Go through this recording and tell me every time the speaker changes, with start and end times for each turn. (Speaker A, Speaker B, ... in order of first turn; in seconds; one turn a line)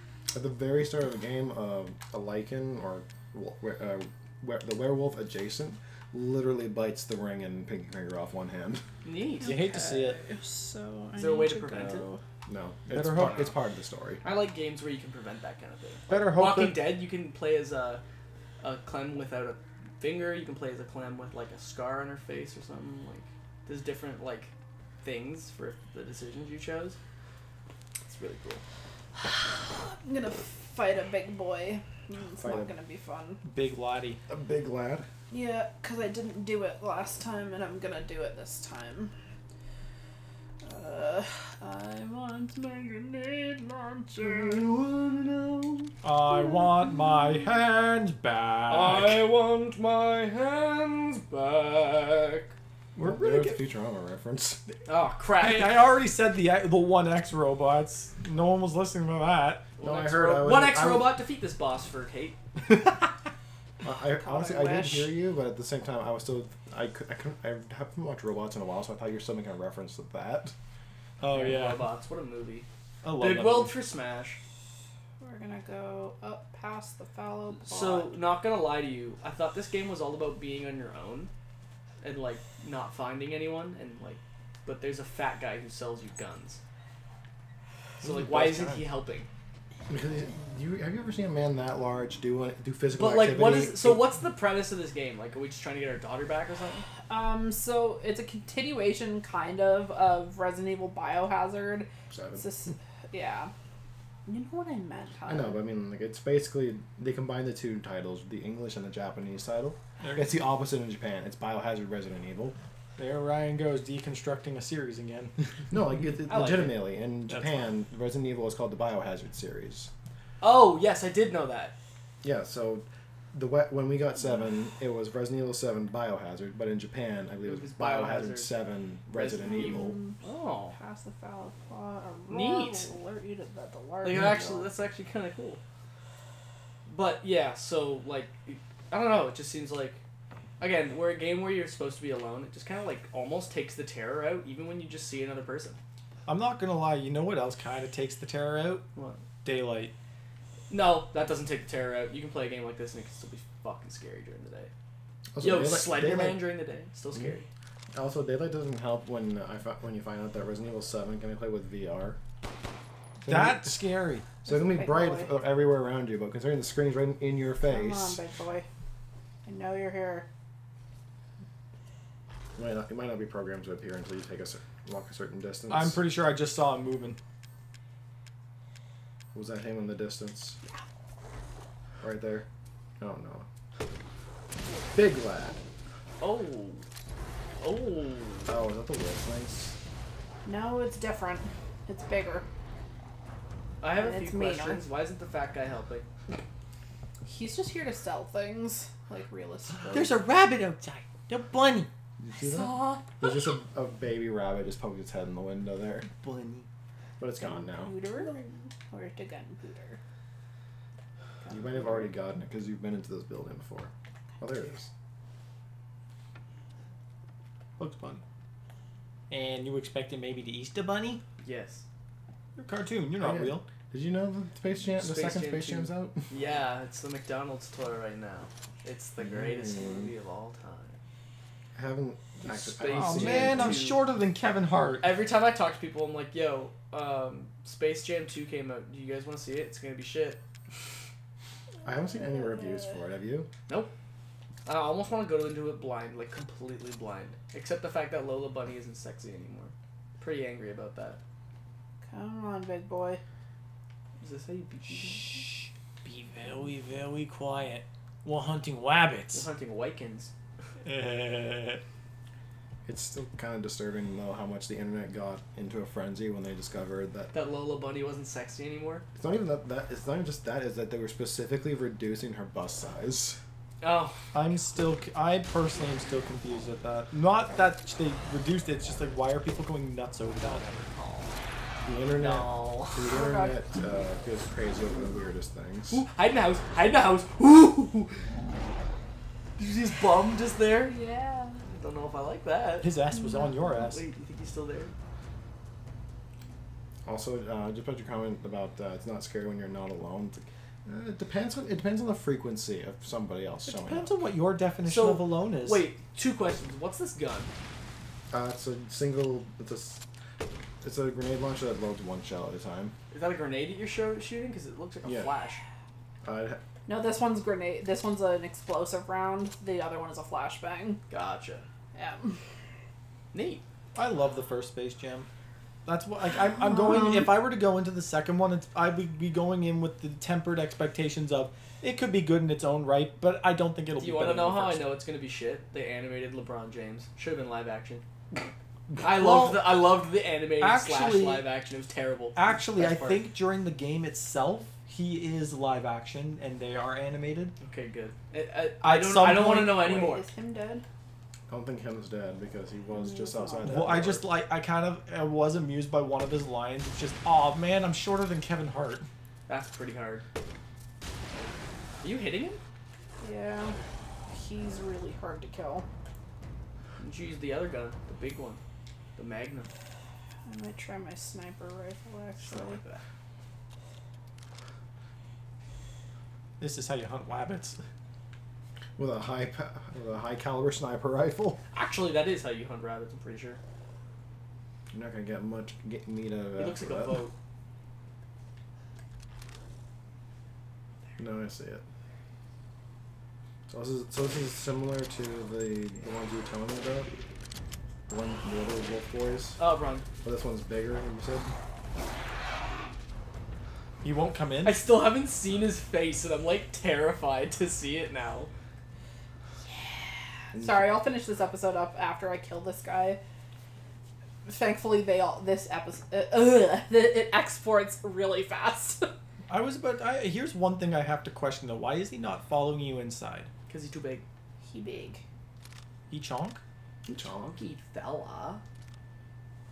Speaker A: 0.3-8.8
Speaker B: 9.0-9.6
Speaker C: 9.4-12.2
Speaker D: 9.4-10.2
Speaker B: 11.2-12.1
Speaker A: 12.5-14.2
Speaker D: 12.9-13.5
Speaker B: 14.2-18.0
Speaker D: 16.1-17.0
Speaker B: 18.6-27.0
Speaker B: 28.0-28.6
Speaker C: 29.1-33.4
Speaker A: 32.4-32.7
Speaker D: 33.4-34.2
Speaker A: 34.3-35.1
Speaker C: 35.3-39.1
Speaker C: 40.6-44.6
Speaker B: 44.1-45.9
Speaker D: 46.0-49.3
Speaker C: 46.3-47.4
Speaker B: 48.7-52.5
Speaker D: 52.9-53.6
Speaker A: 53.0-54.6
Speaker B: 54.9-55.8
Speaker D: 55.4-59.6
Speaker B: 59.8-62.4
Speaker A: 59.8-61.1
Speaker D: 62.7-63.1
Speaker A: 63.8-70.5
Speaker C: 64.2-65.1
Speaker D: 71.2-71.9
Speaker B: 71.2-72.7
Speaker D: 73.0-73.8
Speaker B: 73.2-74.4
Speaker C: 75.2-78.2
Speaker B: 77.5-81.3
Speaker B: 82.0-86.6
Speaker B: 88.0-89.3
Speaker D: 88.0-88.9
Speaker A: 89.9-94.1
Speaker B: 92.9-96.9
Speaker C: 97.1-103.5
Speaker A: 102.1-102.4
Speaker C: 104.2-105.6
Speaker A: 105.3-112.5
Speaker D: 110.0-110.3
Speaker D: 113.0-115.6
Speaker A: 115.7-119.9
Speaker B: 116.3-116.8
Speaker D: 117.3-117.7
Speaker B: 120.4-121.7
Speaker A: 122.2-130.0
Speaker B: 127.4-128.6
Speaker B: 129.1-130.7
Speaker C: 129.4-130.2
Speaker C: 130.7-134.7
Speaker B: 132.3-132.9
Speaker B: 134.0-135.6
Speaker B: 136.9-140.0
Speaker B: 140.6-145.8
Speaker D: 146.2-148.8
Speaker B: 148.9-149.2
Speaker D: 149.4-149.9
Speaker B: 150.7-154.7
Speaker A: 155.3-156.4
Speaker B: 155.4-157.5
Speaker A: 157.9-162.2
Speaker A: 163.2-163.8
Speaker D: 163.2-164.3
Speaker C: 164.4-165.3
Speaker A: 164.4-168.2
Speaker C: 167.6-168.7
Speaker C: 169.4-170.3
Speaker A: 172.6-176.0
Speaker D: 175.7-177.2
Speaker A: 179.3-180.6
Speaker A: 182.0-182.5
Speaker A: 183.0-183.5
Speaker A: 184.9-185.6
Speaker B: 186.2-186.8
Speaker B: 187.6-188.5
Speaker A: 188.5-189.8
Speaker C: 190.4-192.4
Speaker B: 193.8-196.1
Speaker C: 193.9-194.8
Speaker C: 197.2-200.2
Speaker D: 199.9-201.9
Speaker A: 202.2-206.1
Speaker C: 202.3-203.3
Speaker D: 206.1-206.7
Speaker A: 207.2-207.9
Speaker C: 207.4-210.0
Speaker C: 211.4-212.0
Speaker A: 211.5-214.9
Speaker D: 217.8-218.2
Speaker D: 219.3-221.2
Speaker B: 221.4-221.8
Speaker D: 222.6-223.6
Speaker A: 223.2-226.3
Speaker B: 225.0-231.0
Speaker A: 229.2-230.1
Speaker A: 231.7-233.8
Speaker B: 232.4-234.0
Speaker D: 232.9-235.1
Speaker B: 235.0-240.4
Speaker A: 241.8-243.5
Speaker C: 242.2-242.8
Speaker B: 244.7-251.2
Speaker C: 252.1-253.2
Speaker B: 254.2-255.4
Speaker D: 255.0-259.5
Speaker B: 259.3-260.3
Speaker D: 260.8-261.8
Speaker A: 262.9-267.3
Speaker B: 267.3-269.0
Speaker A: 269.1-273.4
Speaker B: 273.8-274.2
Speaker D: 274.3-280.6
Speaker B: 280.4-281.3
Speaker A: 281.8-286.0
Speaker B: 282.1-283.1
Speaker C: 283.1-283.6
Speaker B: 285.9-288.2
Speaker B: 289.6-290.9
Speaker C: 290.8-291.6
Speaker B: 291.6-292.9
Speaker D: 292.8-294.0
Speaker C: 293.1-293.6
Speaker B: 293.7-294.9
Speaker A: 297.0-304.1
Speaker D: 303.6-305.9
Speaker B: 304.8-307.5
Speaker A: 308.3-310.0
Speaker A: 310.8-312.9
Speaker B: 313.1-315.6
Speaker A: 315.0-315.3
Speaker A: 316.2-316.6
Speaker C: 316.9-321.0
Speaker B: 321.1-321.7
Speaker C: 321.9-322.4
Speaker B: 323.3-323.6
Speaker D: 323.9-325.3
Speaker D: 325.9-334.9
Speaker C: 326.7-327.3
Speaker B: 334.0-338.0
Speaker D: 338.9-339.7
Speaker B: 339.0-343.2
Speaker D: 340.6-341.4
Speaker D: 342.3-347.5
Speaker B: 347.6-350.2
Speaker D: 348.8-349.8
Speaker C: 349.8-350.8
Speaker A: 351.5-354.3
Speaker C: 352.9-353.9
Speaker D: 353.6-359.1
Speaker B: 359.5-360.2
Speaker B: 362.0-362.6
Speaker C: 363.2-365.9
Speaker B: 367.0-368.6
Speaker B: 369.1-369.7
Speaker C: 370.4-372.8
Speaker B: 372.4-373.0
Speaker D: 376.6-377.8
Speaker A: 378.9-381.6
Speaker B: 381.7-383.6
Speaker A: 384.9-387.2
Speaker B: 386.6-387.3
Speaker A: 391.2-391.8
Speaker A: 393.7-397.1
Speaker A: 398.1-399.6
Speaker B: 399.6-400.0
Speaker A: 400.2-401.5
Speaker D: 404.0-404.8
Speaker B: 404.6-408.5
Speaker C: 410.5-413.2
Speaker A: 410.5-411.0
Speaker C: 414.4-419.1
Speaker D: 419.5-423.5
Speaker B: 423.7-424.2
Speaker C: 424.6-425.2
Speaker D: 426.1-426.6
Speaker A: 427.0-427.6
Speaker B: 427.4-428.6